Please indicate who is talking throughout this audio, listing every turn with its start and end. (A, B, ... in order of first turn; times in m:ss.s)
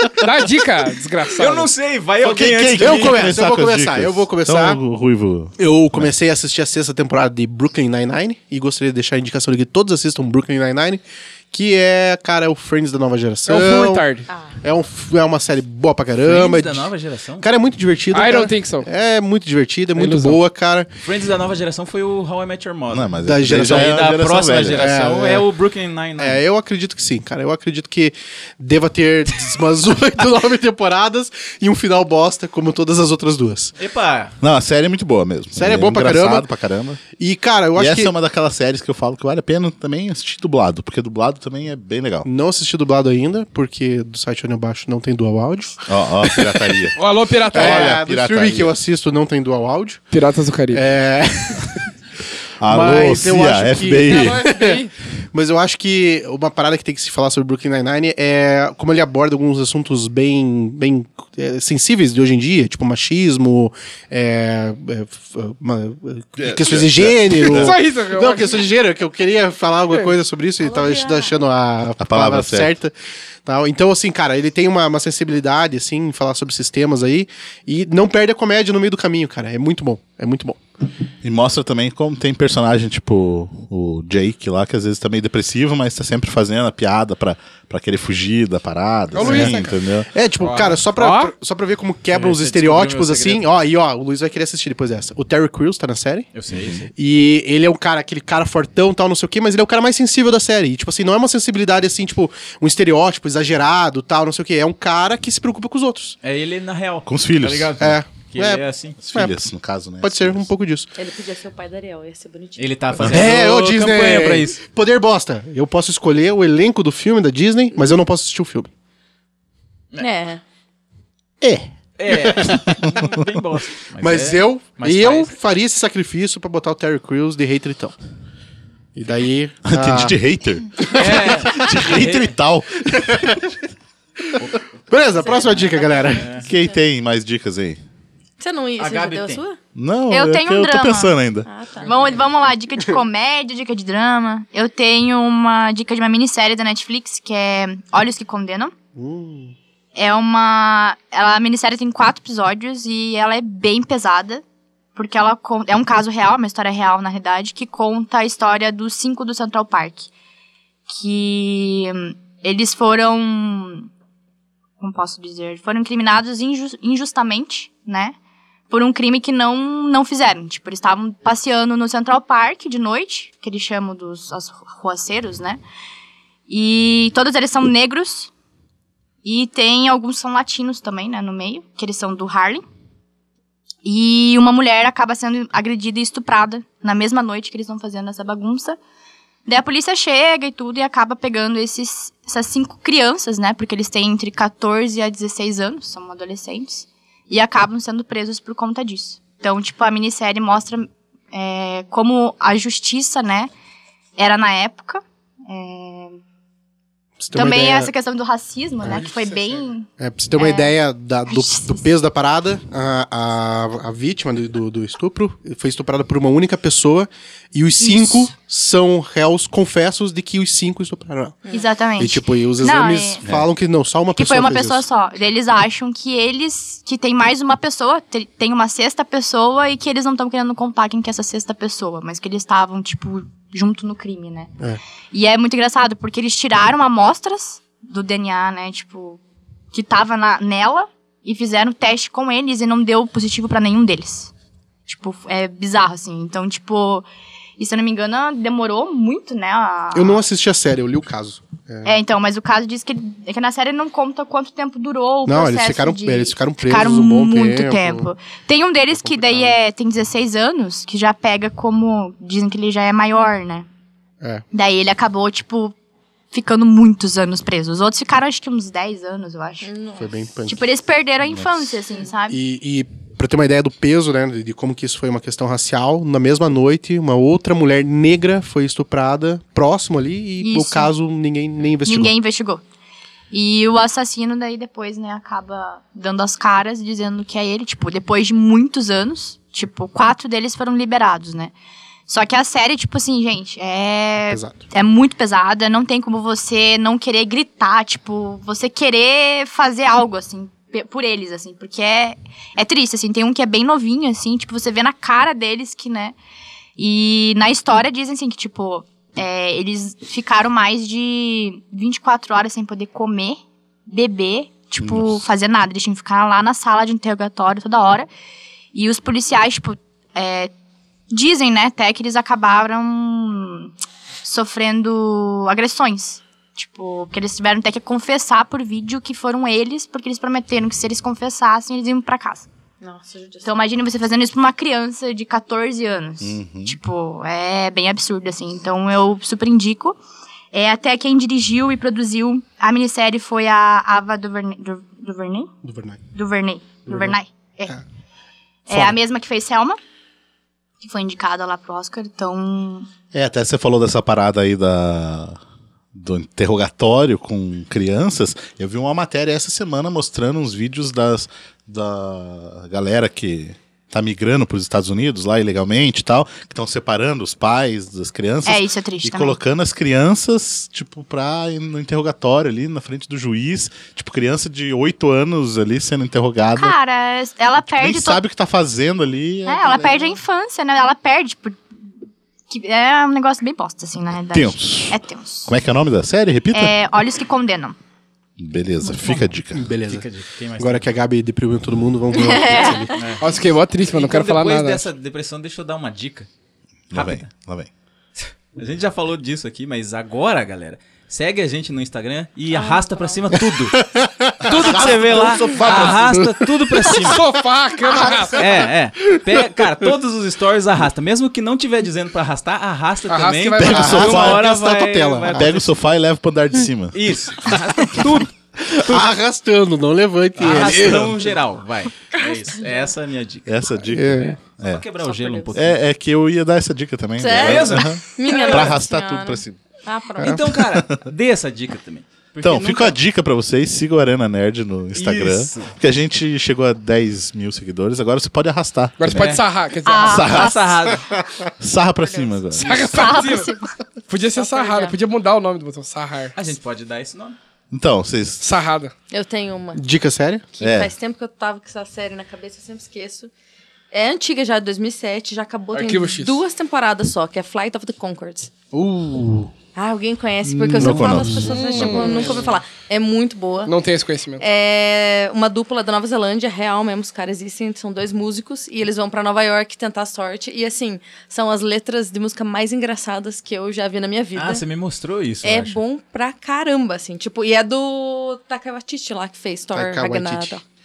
0:00.2-0:01.7 A
0:01.4-0:03.3 B
0:02.2-0:06.1 C
0:02.8-0:04.8 D
0:05.6-0:20.9 D
0:13.5-0:14.3 A
0:14.3-0:14.5 E
0:16.2-0:17.5 B
0:18.1-0:18.9 A
0:20.0-0:20.4 A
0:21.0-0:26.4 B
0:22.9-0:24.9 C
0:23.2-0:23.9 D
0:24.8-0:25.4 D
0:26.2-0:33.7 D
0:33.8-0:34.3 B
0:34.4-0:37.0 C
0:35.5-0:36.5 D
0:37.2-0:38.1 D
0:37.8-0:42.3 C
0:42.2-0:46.7 D
0:45.9-0:47.0 C
0:47.0-0:48.0 A
0:47.5-0:48.7 C
0:47.5-0:50.0 D
0:50.1-0:50.8 A
0:50.7-0:51.8 D
0:52.6-0:54.4 C
0:52.6-0:54.8 D
0:54.0-0:54.9 A
0:55.3-1:12.9 D
1:06.4-1:07.8 C
1:07.5-1:08.6 A
1:10.6-1:11.4 E
1:12.0-1:12.8 C
1:13.4-1:20.6 D
1:21.2-1:30.1 C
1:29.1-1:29.8 A
1:29.2-1:36.3 D
1:30.4-1:31.3 A
1:32.1-1:33.4 B
1:36.3-1:36.9 B
1:36.9-1:46.1 D
1:46.2-1:49.0 B
1:47.0-1:48.0 C
1:47.8-1:49.4 D
1:49.0-1:50.5 C
1:50.0-1:50.9 D
1:51.0-1:52.7 E
1:52.6-1:54.6 B
1:53.1-1:58.7 D
2:00.0-2:00.4 E
2:02.0-2:05.3 B
2:02.0-2:02.7 D
2:02.4-2:03.0 C
2:04.0-2:07.9 D
2:08.9-2:10.2 D
2:09.6-2:13.3 C
2:10.8-2:11.7 D
2:10.9-2:12.3 B
2:14.9-2:16.4 D
2:15.2-2:16.5 E
2:16.1-2:16.4 B
2:16.4-2:17.8 C
2:18.4-2:19.6 E
2:18.8-2:19.4 B
2:19.7-2:21.5 C
2:20.1-2:21.1 F
2:21.4-2:22.2 E
2:21.8-2:28.7 F
2:28.9-2:29.5 D
2:30.0-2:34.4 F
2:34.9-2:40.1 F
2:40.9-2:43.9 F
2:44.8-2:48.1 F
2:48.7-2:55.6 F
2:56.5-2:58.3 F
2:59.2-3:02.6 F
3:03.8-3:08.8 F
3:09.5-3:23.5 F
3:24.2-3:26.2 F
3:27.2-3:27.9 D
3:27.3-3:30.7 F
3:29.0-3:29.6 A
3:30.0-3:41.4 D
3:31.3-3:31.8 F
3:37.8-3:38.3 F
3:41.5-3:43.2 F
3:42.0-3:44.8 D
3:43.2-3:43.5 C
3:44.1-3:54.5 F
3:55.1-3:59.2 F
3:59.7-4:04.3 F
4:04.8-4:07.0 F
4:07.6-4:10.2 F
4:09.9-4:12.0 D
4:11.8-4:23.6 F
4:15.2-4:18.0 D
4:19.0-4:19.6 D
4:24.5-4:25.7 F
4:26.3-4:29.7 F
4:29.6-4:30.1 E
4:30.0-4:30.6 D
4:30.5-4:32.4 F
4:32.3-4:42.1 D
4:40.4-4:40.9 F
4:41.9-4:42.6 F
4:43.3-4:51.5 F
4:52.1-5:06.1 F
4:54.3-4:54.6 D
5:06.8-5:18.1 F
5:14.8-5:15.2 C
5:18.7-5:20.5 F
5:21.1-5:23.7 F
5:24.2-5:32.5 F
5:32.8-5:33.6 E
5:33.4-5:40.0 F
5:36.2-5:36.8 C
5:40.5-5:45.5 F
5:45.6-5:46.0 D
5:46.1-5:47.7 F
5:46.9-5:47.2 D
5:48.7-5:49.8 F
5:48.7-5:49.0 D
5:50.8-5:52.9 F
5:53.1-5:55.4 C
5:55.9-6:16.8 C
6:08.4-6:09.4 F
6:16.6-6:18.2 F
6:17.6-6:20.1 C
6:19.4-6:21.6 F
6:22.5-6:25.5 F
6:24.3-6:26.8 C
6:26.5-6:27.8 F
6:28.4-6:29.7 C
6:29.1-6:30.0 D
6:29.9-6:30.9 B
6:30.6-6:32.9 D
6:32.1-6:32.9 F
6:32.9-6:33.3 B
6:33.2-6:34.8 A
6:33.9-6:36.3 B
6:36.9-6:37.7 C
6:36.9-6:37.3 B
6:38.2-6:43.8 B
6:42.5-6:43.2 E
6:43.4-6:47.0 D
6:44.4-6:47.2 B
6:45.6-6:46.0 A
6:47.0-6:48.4 A
6:48.3-6:55.7 B
6:53.1-6:54.1 A
6:53.6-6:54.4 C
6:53.6-6:55.6 D
6:55.3-6:57.2 C
6:56.9-6:59.0 B
6:58.9-7:01.4 D
7:00.4-7:03.6 B
7:02.1-7:02.9 E
7:03.4-7:04.8 C
7:03.9-7:04.4 D
7:04.2-7:05.8 B
7:05.0-7:05.6 E
7:05.5-7:09.6 C
7:07.2-7:10.5 E
7:07.2-7:08.7 B
7:10.2-7:12.9 B
7:10.7-7:11.0 C
7:12.4-7:19.4 C
7:14.9-7:15.7 B
7:19.0-7:20.5 A
7:19.1-7:19.4 B
7:19.8-7:20.9 F
7:20.0-7:20.9 C
7:20.2-7:21.1 B
7:21.6-7:23.2 C
7:22.5-7:23.5 A
7:22.8-7:23.7 F
7:24.1-7:26.3 A
7:24.3-7:25.0 E
7:26.3-7:27.4 B
7:27.7-7:28.4 C
7:28.4-7:28.9 A
7:29.1-7:29.8 E
7:29.8-7:30.4 D
7:30.6-7:33.3 E
7:30.6-7:30.9 C
7:33.9-7:38.5 E
7:35.7-7:36.4 A
7:38.7-7:39.5 D
7:39.7-7:43.7 E
7:40.4-7:42.1 C
7:40.8-7:41.4 D
7:41.5-7:42.5 A
7:43.6-7:44.4 A
7:44.4-7:54.6 E
7:54.3-7:55.8 B
7:55.4-8:00.6 E
7:59.7-8:00.6 D